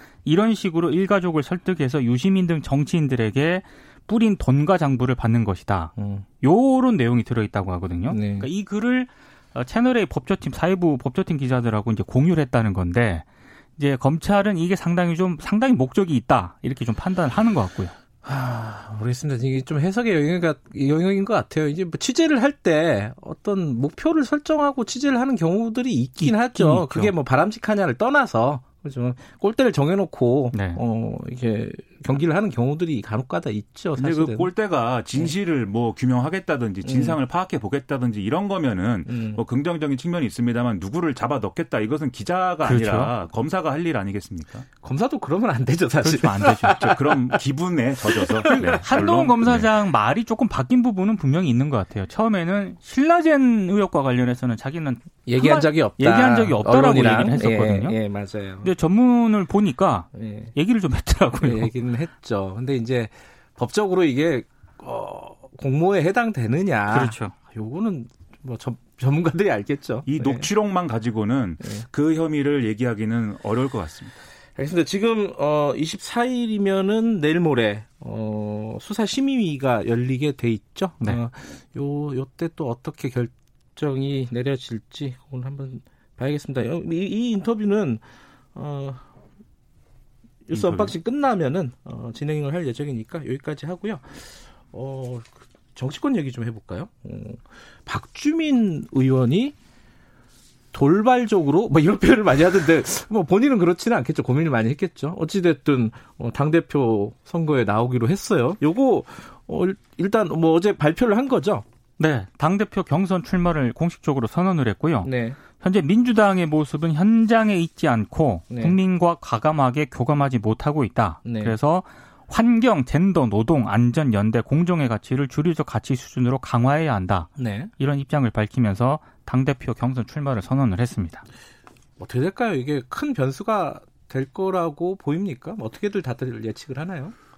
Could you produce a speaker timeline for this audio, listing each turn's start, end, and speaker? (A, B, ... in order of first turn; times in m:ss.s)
0:00.2-0:13.2 A
0:06.0-0:06.2 B
0:08.1-0:08.5 B
0:13.8-0:17.9 A
0:18.2-0:34.5 B
0:26.2-0:27.1 A
0:30.5-0:30.8 A
0:34.0-0:44.6 C
0:36.8-0:37.2 B
0:39.1-0:39.4 B
0:42.6-0:43.1 A
0:44.8-0:47.4 B
0:46.0-0:46.9 A
0:46.7-0:49.7 C
0:48.1-0:48.8 B
0:48.5-0:58.0 A
0:55.2-0:58.7 B
0:58.6-1:01.7 A
1:00.1-1:00.5 B
1:01.4-1:10.5 B
1:06.9-1:07.3 A
1:10.0-1:14.2 C
1:14.6-1:29.0 B
1:30.5-1:39.5 B
1:30.5-1:30.9 C
1:40.7-1:51.6 B
1:52.0-2:11.2 A
1:55.0-1:55.4 B
1:58.5-1:58.8 B
2:01.2-2:01.6 B
2:07.4-2:07.7 B
2:12.0-2:17.1 B